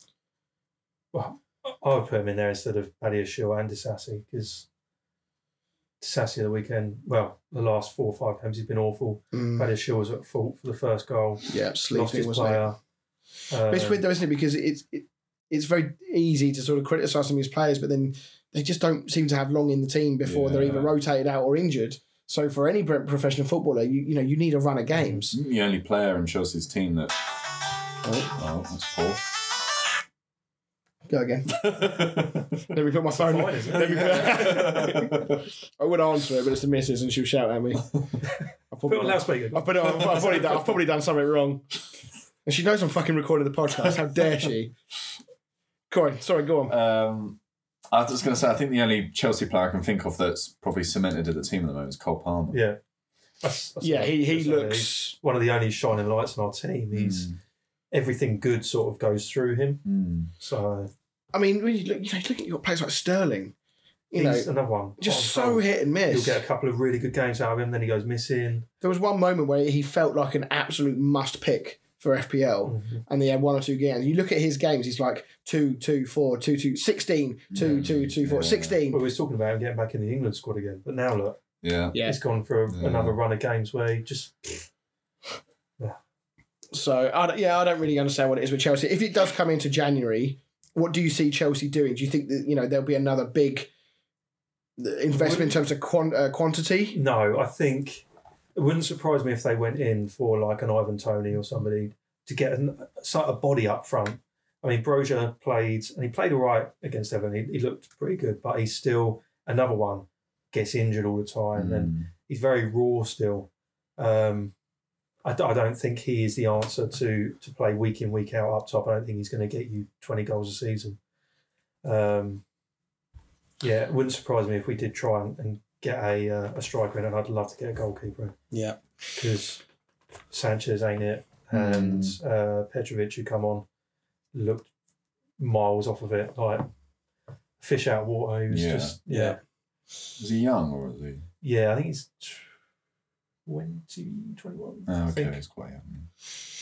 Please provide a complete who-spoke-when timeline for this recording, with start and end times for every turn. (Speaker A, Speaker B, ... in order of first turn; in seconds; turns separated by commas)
Speaker A: 1.1-4.7, Speaker A: 6.0-12.8, Speaker B: 9.3-9.7, Speaker B: 11.5-12.7, Speaker A: 13.5-14.0, Speaker B: 13.7-25.3, Speaker C: 20.2-20.9, Speaker A: 25.0-25.3, Speaker C: 25.3-27.2, Speaker B: 28.0-28.3, Speaker C: 28.3-29.2, Speaker B: 31.1-31.8, Speaker C: 31.6-32.5, Speaker B: 32.6-37.9, Speaker A: 33.1-34.9, Speaker C: 33.8-35.3, Speaker B: 38.7-41.7, Speaker A: 38.9-40.6, Speaker B: 42.5-44.8, Speaker B: 45.9-46.7, Speaker C: 46.7-47.4, Speaker C: 47.9-52.6, Speaker A: 52.5-52.8, Speaker A: 53.4-57.3, Speaker B: 53.8-55.2, Speaker C: 56.9-57.4, Speaker A: 57.9-59.9, Speaker C: 59.9-60.3, Speaker A: 60.4-60.9, Speaker B: 61.3-63.5, Speaker B: 64.1-66.4, Speaker A: 64.2-68.7, Speaker B: 68.8-79.0, Speaker A: 72.7-73.0, Speaker C: 77.5-78.8, Speaker A: 78.9-81.4, Speaker C: 81.6-82.0, Speaker B: 81.9-82.2, Speaker A: 82.0-84.7, Speaker C: 82.7-83.2, Speaker B: 86.7-93.7, Speaker B: 94.8-97.0, Speaker C: 95.3-95.5, Speaker A: 96.9-98.0, Speaker A: 98.6-114.5, Speaker C: 111.5-112.1, Speaker A: 115.2-121.0, Speaker A: 121.8-122.4, Speaker A: 123.6-128.3, Speaker B: 128.5-129.0, Speaker A: 129.2-129.6, Speaker A: 130.3-133.7, Speaker C: 131.5-132.2, Speaker A: 134.3-134.7, Speaker A: 135.4-136.7, Speaker A: 137.6-139.4, Speaker C: 138.5-138.9, Speaker B: 139.1-139.4, Speaker C: 140.2-141.2, Speaker A: 141.4-142.5, Speaker A: 143.5-145.4, Speaker C: 144.9-146.1